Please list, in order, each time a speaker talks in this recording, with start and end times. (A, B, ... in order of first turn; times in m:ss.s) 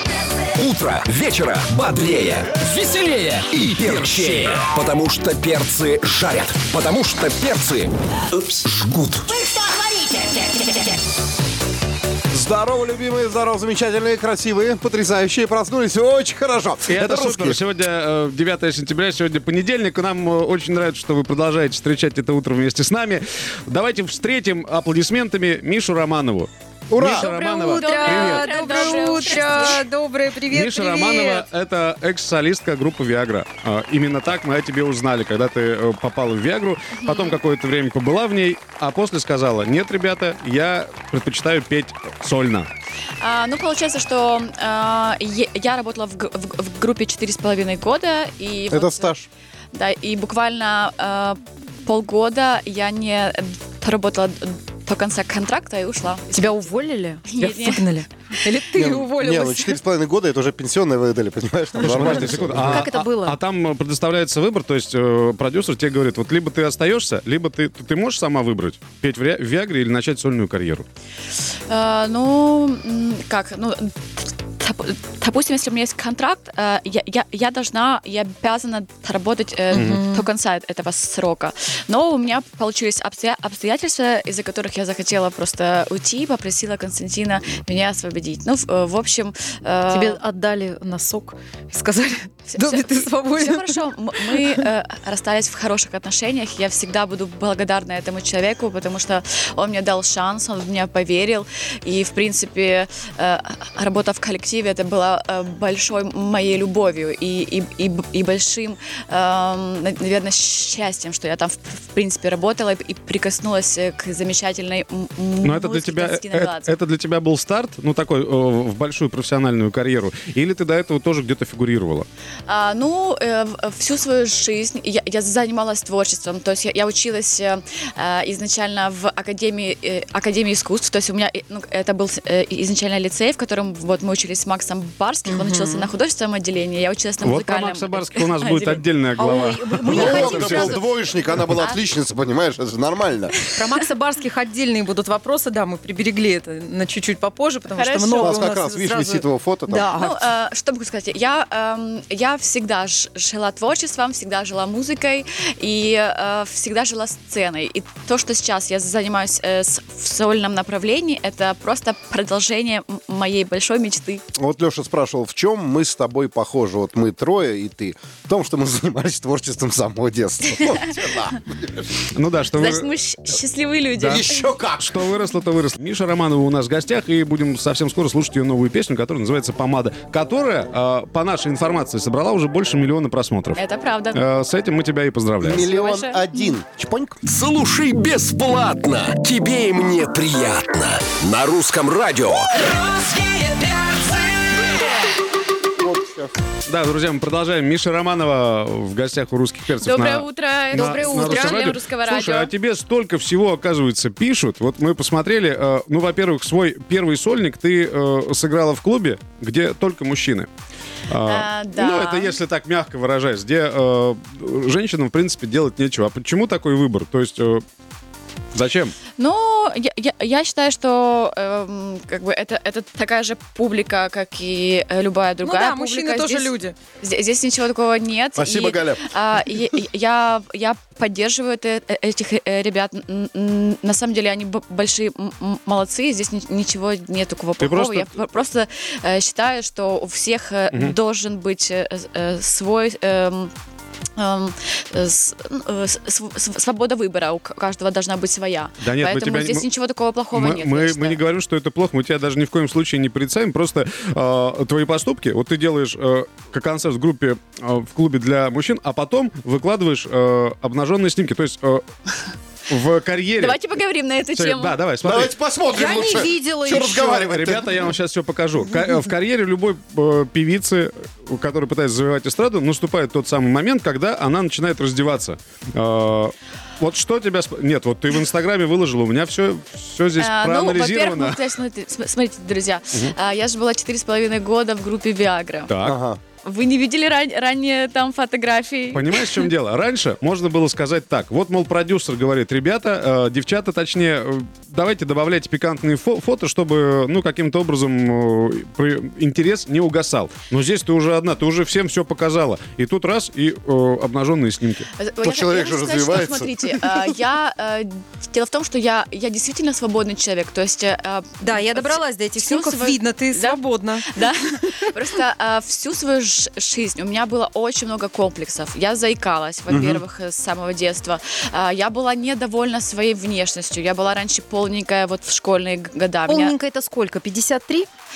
0:00.6-0:11.0 A
0:12.3-0:17.6 B
0:16.9-0:29.5 C
0:26.9-0:27.3 B
0:27.0-0:31.5 D
0:27.7-0:29.8 E
0:30.5-0:42.7 C
0:36.9-0:37.4 E
0:43.2-0:49.1 E
0:48.7-0:49.3 B
0:49.7-0:56.6 E
0:56.3-0:59.8 D
0:57.3-0:57.9 E
0:58.8-1:02.9 B
1:01.8-1:10.9 C
1:01.9-1:03.4 D
1:11.7-1:30.2 E
1:19.7-1:20.3 D
1:19.7-1:20.1 C
1:29.9-1:34.6 D
1:32.5-1:56.7 E
1:55.4-2:02.1 C
2:02.5-2:18.9 E
2:15.3-2:15.9 D
2:17.2-2:20.8 C
2:19.2-2:20.9 D
2:19.8-2:23.4 B
2:23.5-2:30.3 D
2:27.7-2:28.4 E
2:28.2-2:29.9 B
2:30.0-2:44.2 E
2:44.4-2:52.0 B
2:50.6-2:50.8 E
2:52.1-2:52.9 C
2:52.6-2:54.4 E
2:54.0-2:54.3 C
2:54.0-2:55.0 B
2:54.8-3:03.6 C
3:03.6-3:04.2 E
3:04.2-3:05.6 C
3:05.4-3:07.2 B
3:05.5-3:06.3 E
3:07.2-3:15.0 A
3:15.8-3:16.3 B
3:16.7-3:30.5 C
3:19.8-3:22.5 E
3:20.7-3:21.7 D
3:31.1-3:37.6 C
3:31.2-3:32.4 E
3:38.5-3:39.0 C
3:39.2-4:03.5 E
3:45.4-3:46.8 D
3:48.4-3:49.1 B
3:57.6-3:58.1 C
4:04.2-4:11.2 E
4:08.8-4:09.7 C
4:10.3-4:21.8 C
4:22.7-4:23.6 C
4:23.4-4:24.8 E
4:24.4-4:25.4 C
4:25.0-4:27.9 B
4:25.7-4:27.3 D
4:27.2-4:41.4 C
4:40.2-4:45.7 E
4:45.7-4:46.0 C
4:45.8-4:46.2 B
4:46.4-4:49.4 E
4:48.9-5:04.9 C
5:05.0-5:26.6 E
5:05.2-5:07.2 B
5:11.4-5:14.1 D
5:19.7-5:20.0 C
5:26.3-5:27.9 D